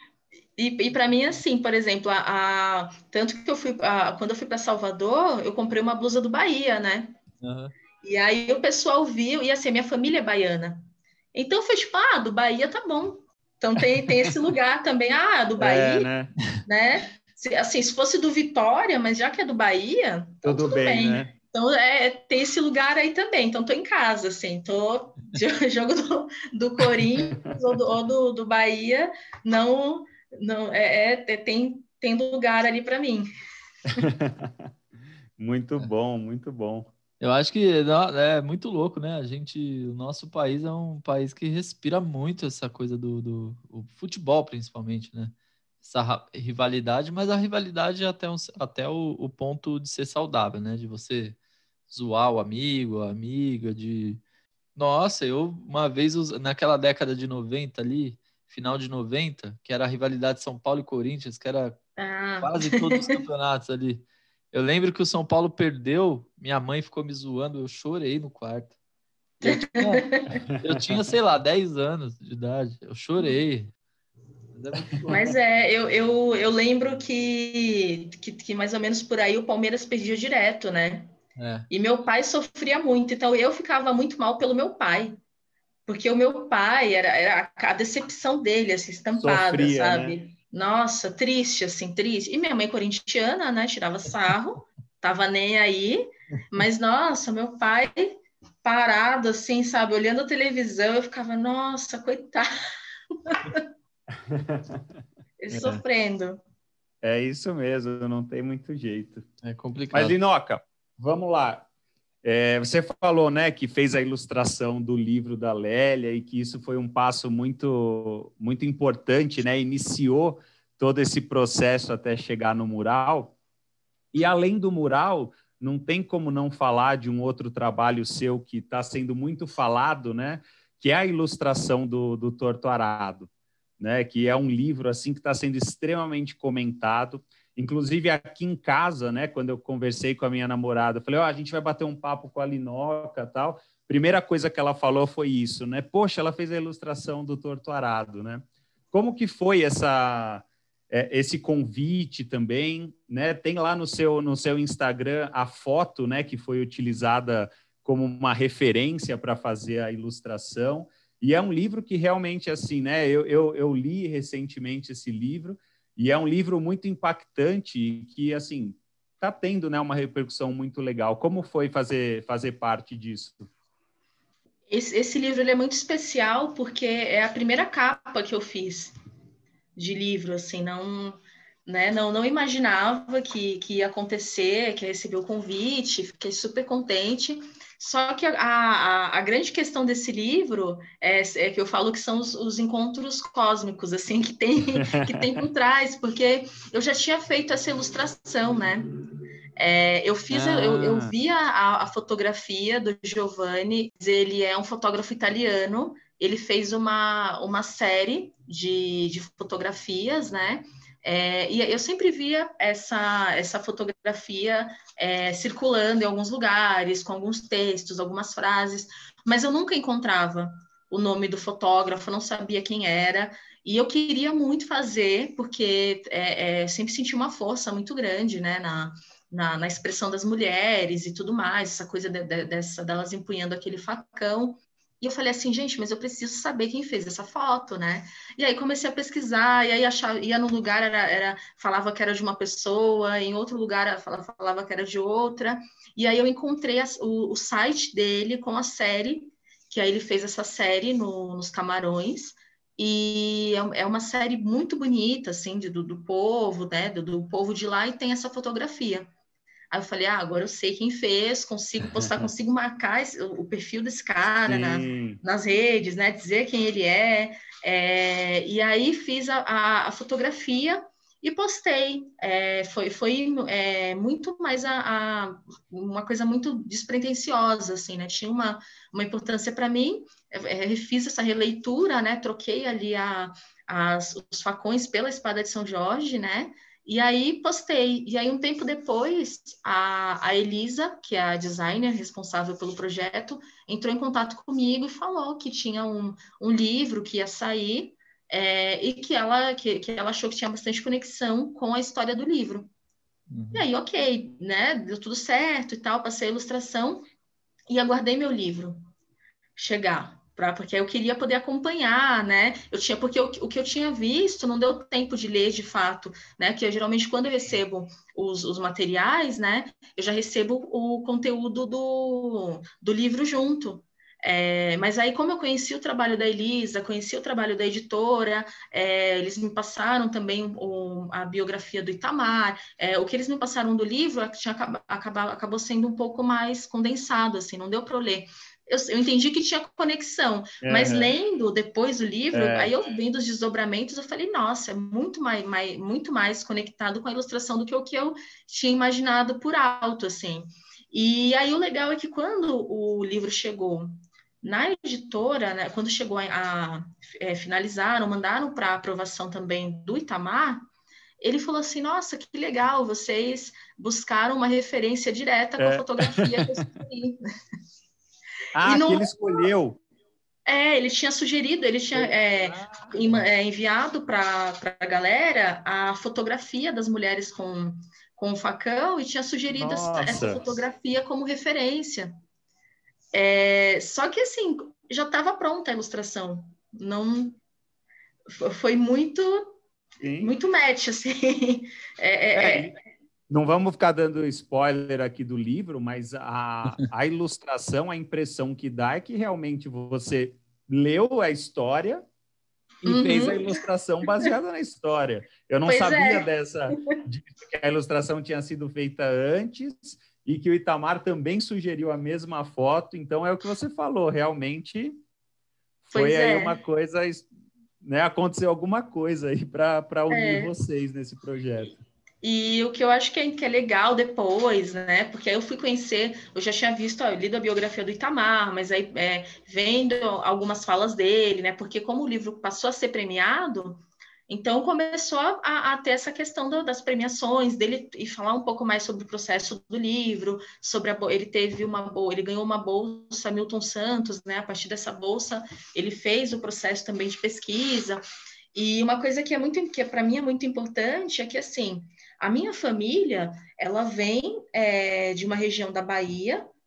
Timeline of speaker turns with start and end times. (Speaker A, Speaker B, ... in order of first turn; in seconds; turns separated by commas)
Speaker A: 0.6-7.2, Speaker B: 7.4-7.7, Speaker A: 8.0-16.1, Speaker C: 15.6-16.3, Speaker A: 16.6-33.3, Speaker C: 20.4-21.3, Speaker C: 33.9-34.7, Speaker C: 35.4-36.9, Speaker B: 37.2-51.4, Speaker B: 51.9-54.2, Speaker B: 54.8-61.8, Speaker A: 62.0-63.1, Speaker B: 62.4-68.8, Speaker B: 69.4-73.7, Speaker A: 69.4-70.4, Speaker C: 70.5-70.9, Speaker B: 74.5-75.2, Speaker C: 75.0-75.3, Speaker A: 75.1-81.1, Speaker B: 81.4-81.7, Speaker A: 81.7-85.2, Speaker A: 85.8-102.5, Speaker C: 89.2-90.2, Speaker A: 103.2-103.6, Speaker C: 104.3-104.8, Speaker A: 105.4-106.4, Speaker B: 105.5-105.8, Speaker C: 107.0-109.2, Speaker B: 109.4-110.2, Speaker C: 109.9-111.7, Speaker C: 112.2-123.3, Speaker C: 124.1-133.3, Speaker C: 133.8-173.5, Speaker A: 174.7-178.9, Speaker A: 179.8-198.9, Speaker C: 194.8-195.4, Speaker A: 199.6-259.1, Speaker B: 200.3-201.1, Speaker A: 259.7-302.7, Speaker C: 264.5-265.2, Speaker B: 303.3-303.7, Speaker A: 303.5-307.0, Speaker A: 307.7-308.8, Speaker A: 309.6-360.6, Speaker C: 340.6-341.1, Speaker C: 342.3-342.7, Speaker A: 361.2-367.2, Speaker C: 365.6-366.6, Speaker C: 368.5-369.8, Speaker A: 368.6-369.5, Speaker A: 370.5-382.1, Speaker C: 371.9-373.3, Speaker C: 379.5-380.6, Speaker A: 383.1-387.4, Speaker A: 388.3-389.5, Speaker C: 390.0-390.3, Speaker A: 390.2-392.7, Speaker C: 392.4-392.7, Speaker C: 393.3-402.0, Speaker C: 402.8-414.9, Speaker A: 402.8-403.6, Speaker A: 405.6-406.3, Speaker C: 415.9-417.2, Speaker A: 415.9-416.6, Speaker C: 417.8-421.8, Speaker A: 420.1-420.5, Speaker A: 422.2-456.4